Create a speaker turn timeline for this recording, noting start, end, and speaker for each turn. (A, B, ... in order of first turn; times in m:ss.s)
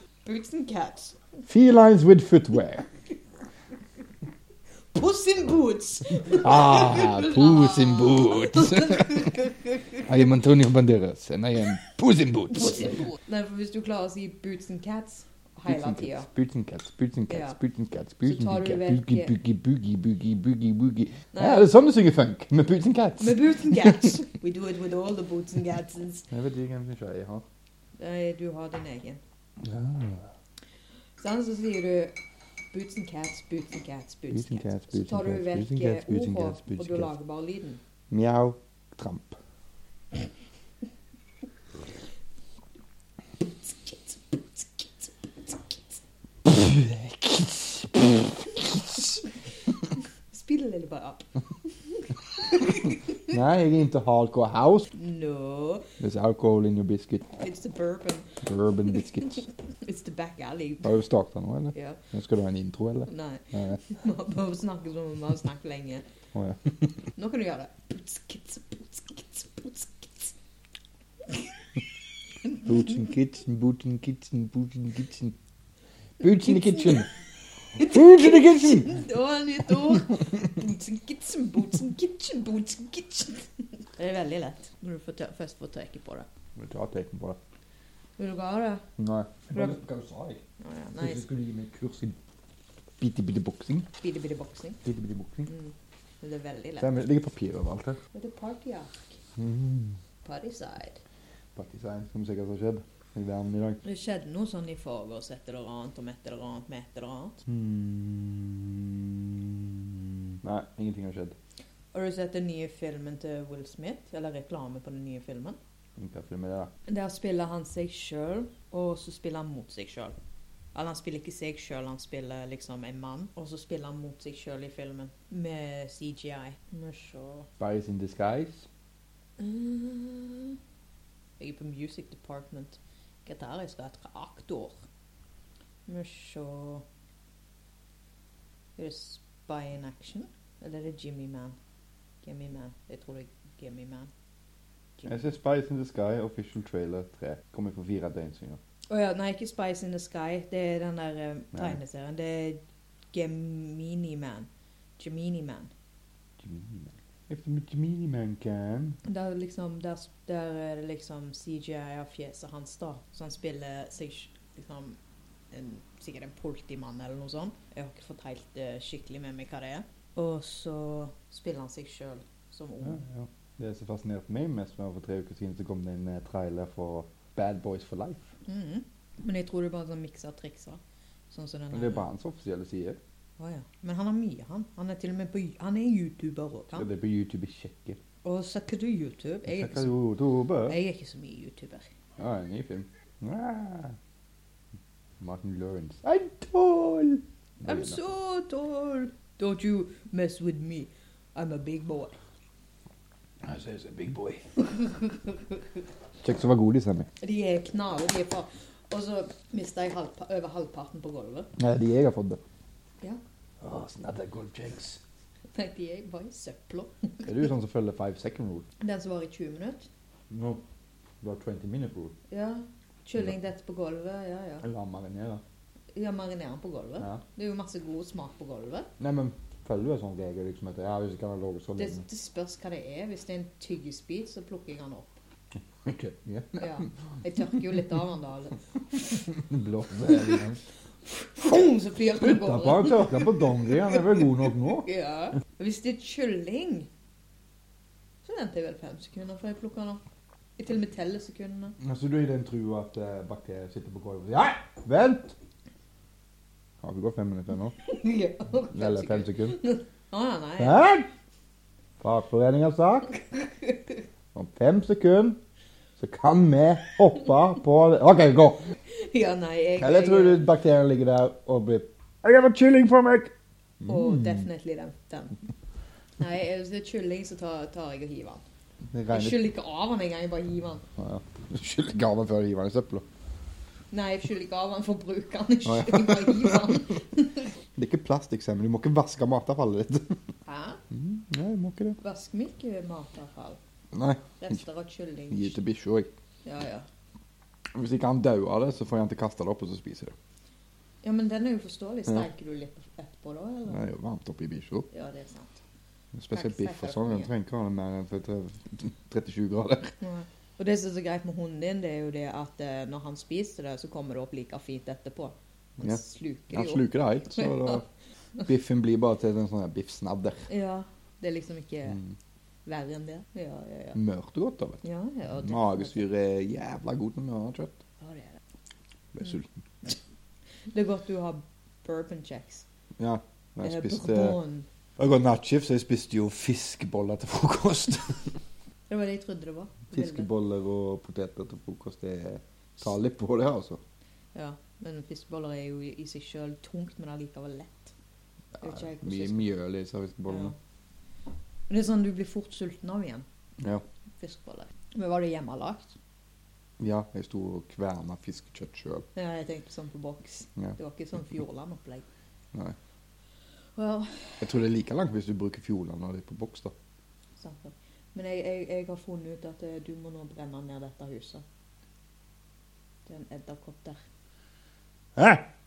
0:00.2-0:01.2 A
0:01.4-0:02.8 B
0:04.9-0:10.0 A
0:06.3-0:09.4 B
0:10.0-0:13.1 B
0:13.2-0:16.3 A
0:15.6-0:24.2 B
0:17.3-0:17.6 A
0:18.2-0:19.3 A
0:21.3-0:21.7 A
0:23.2-0:26.3 A
0:26.3-0:27.4 B
0:28.0-0:29.2 A
0:29.6-0:30.2 B
0:31.2-0:32.2 A
0:32.7-0:37.8 A
0:34.3-0:37.1 B
0:38.1-0:39.4 B
0:43.6-0:45.8 A
0:46.4-0:49.2 B
0:50.3-0:53.2 A
0:53.3-0:54.9 B
0:54.9-0:55.9 A
0:56.0-0:57.2 B
0:57.4-0:58.4 A
0:58.4-0:59.4 B
0:59.2-1:00.9 A
1:00.8-1:03.8 B
1:01.7-1:02.0 A
1:03.1-1:06.0 A
1:06.3-1:06.7 B
1:07.2-1:10.3 A
1:12.6-1:15.3 B
1:16.2-1:17.1 B
1:16.4-1:17.0 A
1:17.7-1:26.3 A
1:17.8-1:19.0 B
1:26.6-1:27.4 B
1:28.2-1:28.8 A
1:29.0-1:30.4 B
1:29.5-1:29.8 A
1:30.6-1:31.2 A
1:31.0-1:32.2 B
1:33.0-1:33.9 B
1:34.0-1:34.8 A
1:34.8-1:35.5 B
1:35.5-1:37.0 A
1:36.8-1:38.0 B
1:38.1-1:39.2 A
1:39.4-1:40.0 B
1:40.2-1:41.0 A
1:41.5-1:43.8 B
1:43.8-1:47.4 A
1:47.4-1:51.4 B
1:51.9-1:55.6 A
1:56.0-1:56.7 B
1:56.9-2:00.1 A
2:00.7-2:07.5 A
2:07.6-2:08.7 B
2:09.4-2:10.6 A
2:11.4-2:14.8 A
2:15.9-2:16.8 A
2:18.8-2:21.6 A
2:22.2-2:24.1 A
2:25.0-2:28.6 B
2:28.9-2:32.6 A
2:31.5-2:31.8 B
2:33.1-2:34.5 A
2:35.0-2:35.7 A
2:36.4-2:39.0 B
2:39.0-2:45.0 A
2:45.5-2:53.0 A
2:52.8-2:58.3 B
2:58.4-3:02.0 A
3:01.7-3:03.0 B
3:03.4-3:06.9 A
3:06.7-3:08.0 B
3:08.2-3:09.9 A
3:09.5-3:10.8 B
3:10.6-3:11.9 A
3:12.2-3:14.0 B
3:15.2-3:18.0 B
3:17.6-3:22.1 A
3:23.4-3:24.4 B
3:24.8-3:25.6 A
3:26.2-3:27.1 B
3:27.2-3:31.5 A
3:31.6-3:32.4 B
3:33.6-3:35.0 B
3:35.5-3:37.3 A
3:37.2-3:38.6 B
3:38.8-3:39.9 A
3:40.3-3:40.6 B
3:41.2-3:42.1 B
3:42.3-3:44.6 A
3:44.6-3:45.4 B
3:45.9-3:48.9 A
3:49.0-3:52.0 B
3:51.8-3:55.2 A
3:55.8-3:56.7 B
3:56.6-3:59.3 A
3:59.2-4:00.6 B
4:01.0-4:06.9 A
4:02.1-4:04.9 B
4:08.2-4:10.0 A
4:10.6-4:11.8 A
4:11.8-4:15.3 B
4:16.8-4:17.7 B
4:17.8-4:20.8 A
4:18.7-4:19.6 B
4:20.6-4:21.1 B
4:22.0-4:23.2 B
4:24.3-4:25.4 B
4:26.0-4:28.7 B
4:28.9-4:30.5 A
4:29.8-4:34.4 B
4:33.8-4:35.4 A
4:36.2-4:38.4 A
4:38.9-4:39.4 B
4:39.1-4:40.8 A
4:41.0-4:43.0 B
4:43.9-4:47.5 A
4:45.6-4:46.8 B
4:47.8-4:50.2 B
4:50.4-4:50.8 A
4:50.9-4:52.0 B
4:52.0-4:53.6 A
4:53.9-4:54.6 B
4:54.4-4:55.6 A
4:55.3-4:56.1 B
4:56.4-4:56.9 A
4:57.7-5:00.1 B
5:01.0-5:03.8 A
5:03.7-5:04.9 B
5:04.9-5:05.6 A
5:06.1-5:09.9 B
5:06.3-5:07.3 A
5:10.0-5:17.8 A
5:15.8-5:17.8 B
5:18.4-5:20.5 B
5:20.5-5:22.0 A
5:22.6-5:24.0 A
5:23.9-5:27.8 B
5:24.8-5:26.0 A
5:28.0-5:28.4 A
5:29.1-5:29.6 B
5:30.7-5:32.6 A
5:33.0-5:34.4 B
5:33.6-5:34.7 A
5:35.0-5:38.3 B
5:38.9-5:40.3 A
5:39.9-5:43.8 B
5:44.3-5:47.9 A
5:48.6-5:50.5 B
5:48.6-5:49.5 A
5:50.3-5:50.5 A
5:51.7-5:53.2 A
5:53.6-5:53.8 B
5:54.2-5:56.0 A
5:56.8-5:59.1 B
5:59.1-6:02.0 A
6:03.8-6:04.5 A
6:04.4-6:06.7 B
6:07.4-6:11.4 A
6:13.0-6:14.0 A
6:15.2-6:15.4 B